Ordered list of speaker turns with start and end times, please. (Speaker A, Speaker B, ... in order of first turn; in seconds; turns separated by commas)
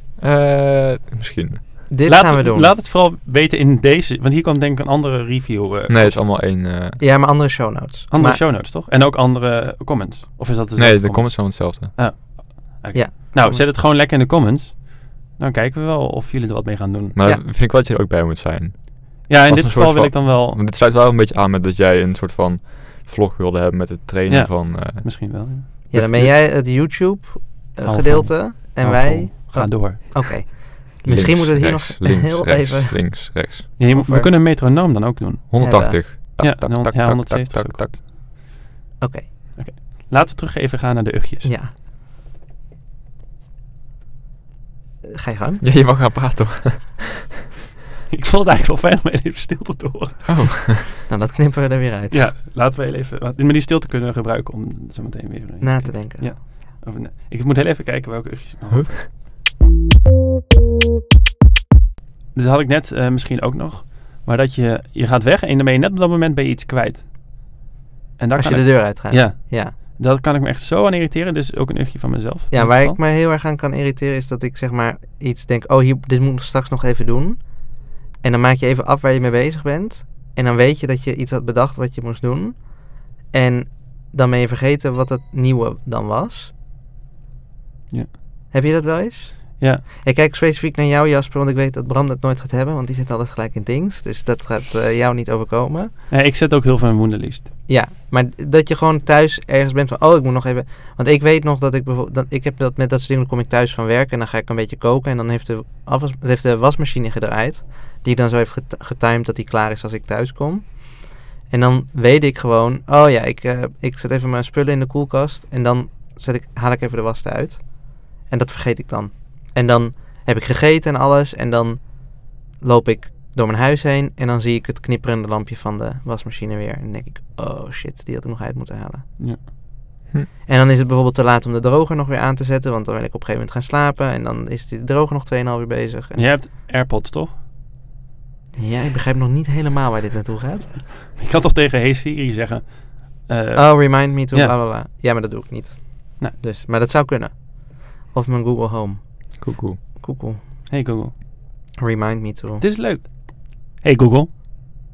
Speaker A: 0.2-1.9, Speaker B: 1.9-2.7, Speaker C: 2.0-6.2, Speaker A: 5.9-7.0, Speaker B: 7.0-8.4, Speaker C: 8.1-17.1, Speaker A: 10.8-11.9, Speaker B: 12.9-13.7, Speaker A: 17.1-25.3, Speaker C: 19.3-20.6, Speaker C: 24.3-26.3, Speaker B: 25.9-34.3, Speaker C: 27.9-30.2, Speaker A: 31.0-33.7, Speaker C: 33.8-38.0, Speaker A: 35.5-38.0, Speaker B: 35.6-36.0, Speaker B: 39.0-39.3, Speaker C: 39.5-41.5, Speaker B: 41.4-41.7, Speaker B: 45.0-45.6, Speaker A: 45.6-47.1, Speaker C: 48.1-50.6, Speaker A: 50.3-50.8, Speaker B: 51.0-52.3, Speaker C: 52.1-59.1, Speaker B: 55.6-56.5, Speaker C: 62.3-67.1, Speaker C: 68.2-73.0, Speaker B: 68.3-69.7, Speaker B: 72.5-86.5, Speaker B: 88.5-95.9, Speaker C: 89.6-89.8, Speaker C: 96.1-97.5, Speaker B: 97.7-129.1, Speaker B: 130.4-136.3, Speaker C: 136.2-137.3, Speaker B: 138.6-140.8, Speaker C: 141.1-144.5, Speaker B: 143.5-149.4, Speaker A: 149.4-149.8, Speaker B: 149.9-150.4, Speaker C: 150.7-151.1, Speaker B: 151.8-152.6, Speaker C: 152.6-154.3